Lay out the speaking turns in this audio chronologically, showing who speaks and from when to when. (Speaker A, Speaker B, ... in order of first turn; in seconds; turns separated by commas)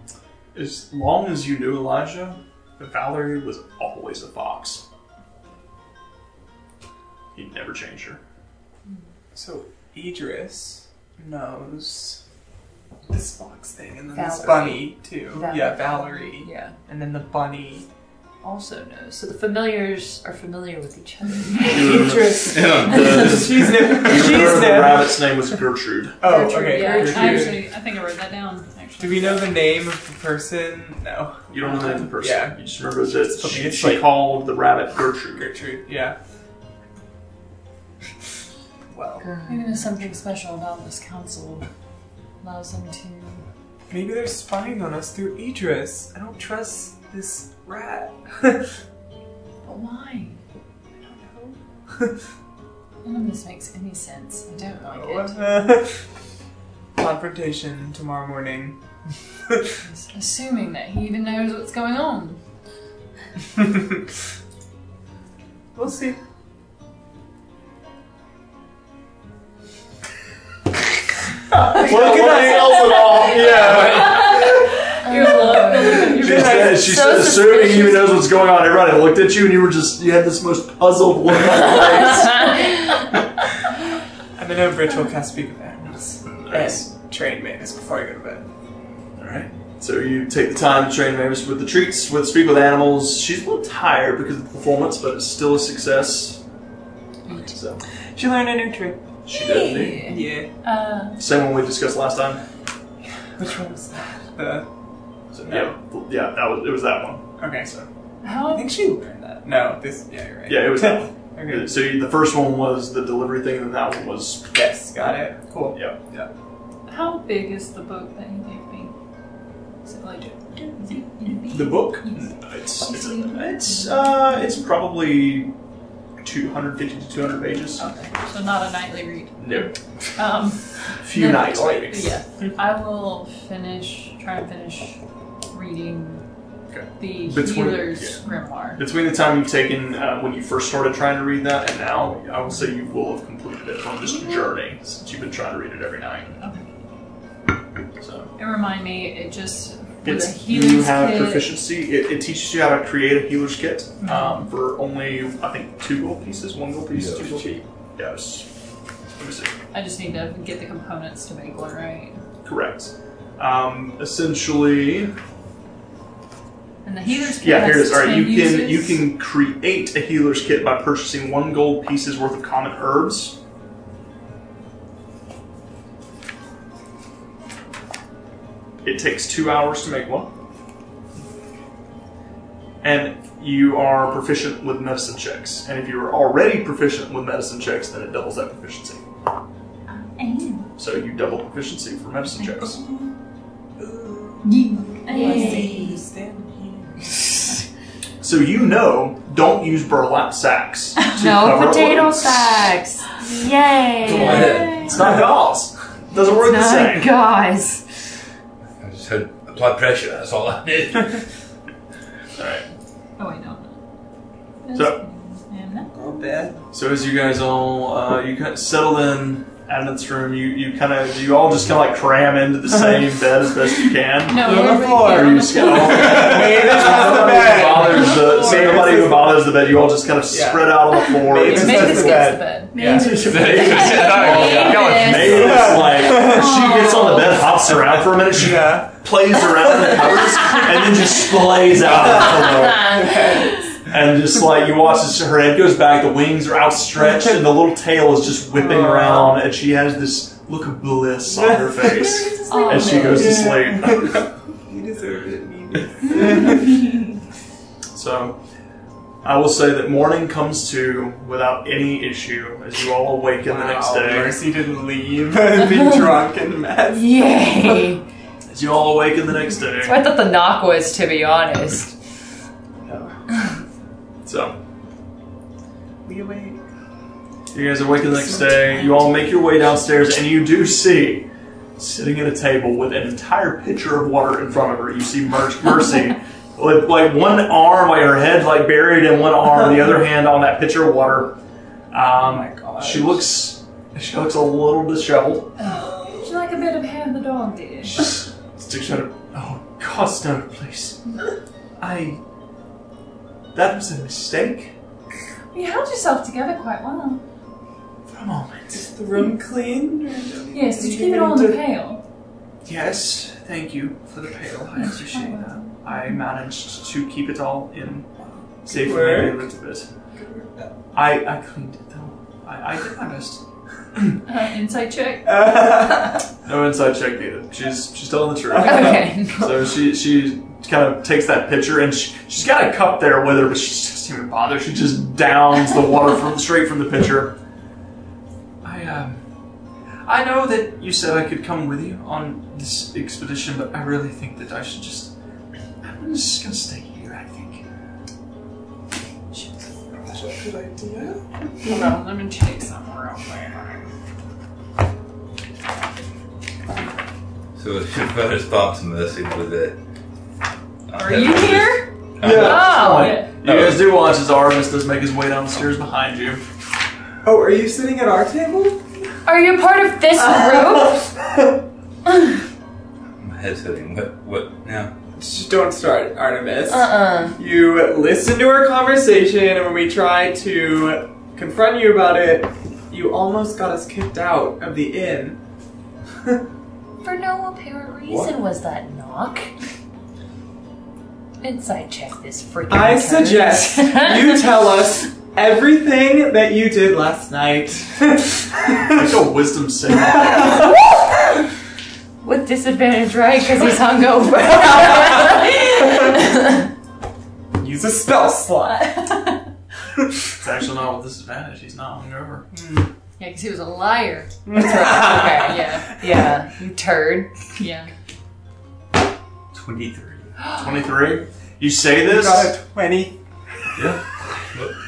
Speaker A: 0.5-4.8, Speaker A: 7.3-8.2, Speaker B: 9.3-12.2, Speaker B: 13.1-17.9, Speaker C: 14.1-16.7, Speaker C: 18.4-23.6, Speaker A: 21.7-26.2, Speaker D: 22.4-23.5, Speaker B: 23.2-25.2, Speaker B: 26.2-27.7, Speaker E: 26.2-29.6, Speaker C: 26.6-27.2, Speaker A: 27.0-27.5, Speaker B: 29.0-34.2, Speaker A: 31.5-35.5, Speaker B: 35.3-36.2, Speaker B: 38.9-39.3, Speaker C: 39.2-40.1, Speaker E: 39.5-41.7, Speaker E: 42.4-43.5, Speaker B: 43.9-48.7, Speaker E: 49.6-50.4, Speaker B: 51.0-52.1, Speaker E: 53.0-55.6, Speaker B: 54.8-56.0, Speaker B: 57.0-58.8, Speaker E: 59.9-62.4, Speaker B: 65.8-66.2, Speaker B: 71.7-74.6, Speaker A: 71.7-74.4, Speaker E: 73.4-76.8, Speaker C: 75.0-78.3, Speaker B: 75.1-76.9, Speaker A: 76.2-82.6, Speaker B: 84.3-88.5, Speaker A: 85.9-86.8, Speaker A: 89.2-96.4, Speaker C: 97.3-97.6, Speaker A: 97.5-97.8, Speaker B: 98.2-99.0, Speaker A: 99.3-100.0, Speaker C: 99.3-100.1, Speaker E: 99.7-101.2, Speaker B: 100.0-100.5, Speaker A: 101.2-102.4, Speaker B: 103.4-104.7, Speaker A: 105.3-107.9, Speaker B: 105.5-105.7, Speaker B: 107.4-107.7, Speaker E: 108.2-108.8, Speaker B: 108.5-111.8, Speaker A: 110.5-116.0, Speaker B: 114.5-116.3, Speaker E: 116.9-118.9, Speaker E: 119.8-124.4, Speaker A: 121.5-125.5, Speaker A: 126.2-127.8, Speaker E: 127.8-135.0, Speaker A: 129.4-129.8, Speaker A: 131.0-132.2, Speaker E: 135.5-136.3, Speaker A: 136.7-138.2, Speaker E: 137.0-138.8, Speaker A: 138.8-146.4, Speaker E: 144.2-144.5, Speaker A: 148.0-148.3, Speaker E: 148.4-151.5, Speaker A: 150.0-158.5, Speaker E: 154.0-154.4, Speaker D: 156.9-157.5, Speaker A: 159.2-159.6, Speaker E: 159.7-162.2, Speaker A: 162.4-165.1, Speaker E: 166.8-169.0, Speaker A: 167.4-173.4, Speaker A: 178.8-180.3, Speaker A: 182.8-189.0, Speaker E: 189.9-190.7, Speaker A: 190.8-192.8, Speaker B: 192.7-193.1, Speaker B: 193.8-197.4, Speaker E: 194.4-195.9, Speaker C: 195.1-196.0, Speaker A: 198.2-202.7, Speaker C: 201.1-205.0, Speaker A: 204.0-207.1, Speaker D: 204.0-205.2, Speaker C: 206.2-207.8, Speaker D: 208.8-211.2, Speaker A: 212.4-212.7, Speaker E: 213.2-213.8, Speaker E: 214.6-215.9, Speaker B: 215.9-216.6, Speaker A: 216.7-232.3, Speaker B: 222.7-223.1, Speaker E: 224.3-228.8, Speaker B: 224.3-229.7, Speaker B: 230.3-233.4, Speaker E: 231.2-232.8, Speaker C: 232.7-237.5, Speaker A: 232.9-243.0, Speaker D: 233.2-235.9, Speaker B: 235.3-236.6, Speaker E: 236.8-237.1, Speaker B: 238.3-238.9, Speaker C: 240.1-241.2, Speaker C: 241.8-243.8, Speaker B: 241.8-243.7, Speaker A: 243.8-254.3, Speaker B: 247.0-247.4, Speaker B: 248.5-249.4, Speaker B: 251.3-252.2, Speaker E: 251.8-253.3, Speaker C: 252.5-253.6, Speaker B: 253.1-257.1, Speaker A: 257.9-258.4, Speaker A: 259.2-264.4, Speaker B: 263.4-267.9, Speaker C: 266.9-268.0, Speaker A: 268.5-270.0, Speaker C: 269.8-271.9, Speaker A: 274.2-274.6, Speaker B: 276.1-276.6, Speaker A: 277.5-291.4, Speaker B: 278.0-279.6, Speaker A: 291.9-295.6, Speaker B: 292.1-293.3, Speaker E: 295.6-298.0, Speaker B: 295.9-296.2, Speaker A: 297.9-301.0, Speaker A: 301.8-302.2, Speaker A: 303.5-304.8, Speaker E: 305.5-307.2, Speaker A: 308.1-308.9, Speaker B: 308.7-311.6, Speaker E: 310.5-312.0, Speaker A: 312.6-318.1, Speaker E: 314.8-316.2, Speaker B: 318.2-319.5, Speaker A: 318.6-319.9, Speaker B: 320.1-320.7, Speaker A: 320.9-323.4, Speaker E: 324.2-325.6, Speaker B: 325.2-326.2, Speaker A: 326.4-337.4, Speaker B: 328.5-329.6, Speaker C: 328.6-329.6, Speaker A: 338.6-339.2, Speaker A: 340.1-345.1, Speaker A: 345.8-347.6, Speaker E: 349.3-349.7, Speaker B: 350.1-351.2, Speaker E: 351.6-353.9, Speaker D: 357.6-359.8, Speaker D: 360.9-364.0, Speaker E: 360.9-363.3, Speaker B: 362.2-362.8, Speaker A: 362.2-366.4, Speaker C: 362.7-363.1, Speaker B: 367.2-369.1, Speaker C: 369.2-371.0, Speaker B: 370.2-371.5, Speaker D: 373.2-374.9, Speaker B: 375.1-385.4, Speaker C: 376.7-377.4, Speaker C: 387.0-389.5, Speaker D: 388.1-388.3, Speaker C: 391.4-394.5, Speaker B: 392.7-399.2, Speaker A: 398.9-400.8, Speaker B: 400.2-400.7, Speaker C: 402.2-406.7, Speaker B: 407.6-408.9, Speaker E: 408.6-409.5, Speaker A: 410.4-412.5, Speaker B: 412.5-412.9, Speaker E: 413.2-416.0, Speaker B: 414.5-415.5, Speaker C: 414.5-417.5, Speaker E: 417.6-417.9, Speaker D: 419.5-420.2, Speaker A: 420.5-422.5, Speaker B: 422.0-423.2